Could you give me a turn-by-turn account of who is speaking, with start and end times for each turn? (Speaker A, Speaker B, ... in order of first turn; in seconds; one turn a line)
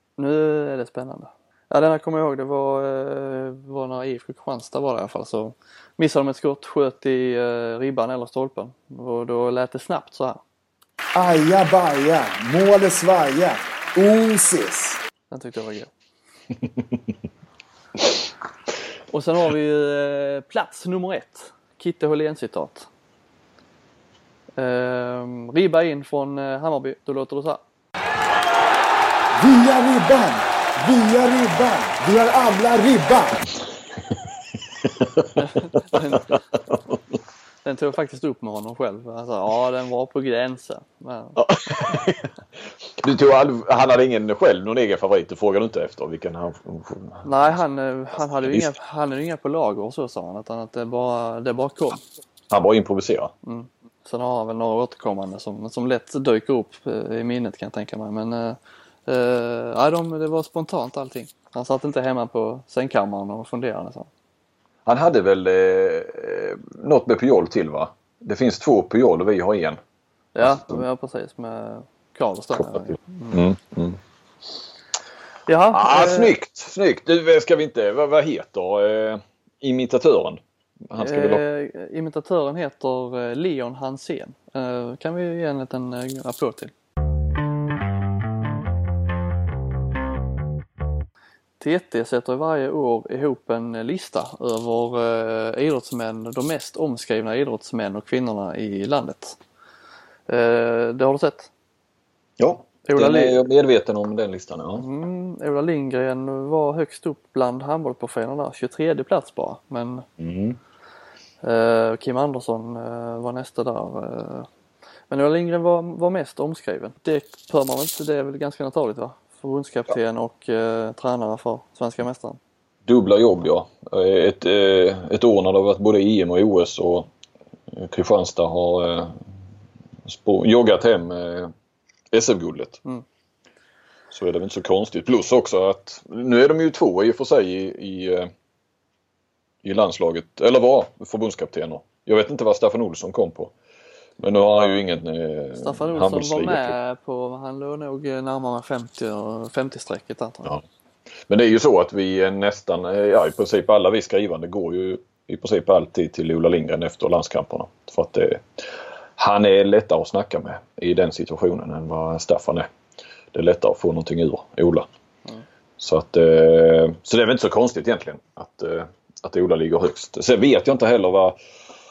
Speaker A: 0.2-10.4
Speaker B: 11.2-15.0
Speaker A: 15.3-15.9
Speaker A: 19.1-22.9
Speaker A: 24.6-27.6
Speaker B: 29.4-33.4
Speaker C: 35.0-35.3
Speaker A: 35.4-36.4
Speaker C: 36.1-37.0
Speaker A: 37.6-41.4
Speaker C: 41.4-42.3
Speaker C: 43.0-47.2
Speaker A: 47.2-52.0
Speaker C: 48.3-48.7
Speaker C: 52.5-53.3
Speaker A: 53.4-64.1
Speaker C: 64.8-69.8
Speaker A: 70.3-73.4
Speaker C: 70.4-70.8
Speaker C: 73.3-74.0
Speaker A: 75.5-76.3
Speaker C: 75.7-81.4
Speaker A: 81.0-86.7
Speaker A: 91.6-99.4
Speaker A: 100.3-101.5
Speaker C: 102.4-104.9
Speaker A: 102.8-103.4
Speaker A: 104.8-110.0
Speaker C: 110.2-110.6
Speaker A: 111.4-114.5
Speaker A: 115.1-122.4
Speaker C: 122.8-127.1
Speaker C: 127.7-129.2
Speaker C: 130.0-131.5
Speaker C: 132.1-132.8
Speaker C: 134.1-138.3
Speaker C: 139.6-143.5
Speaker C: 144.2-146.7
Speaker A: 145.6-150.5
Speaker C: 151.3-162.7
Speaker C: 163.3-164.9
Speaker C: 165.8-171.3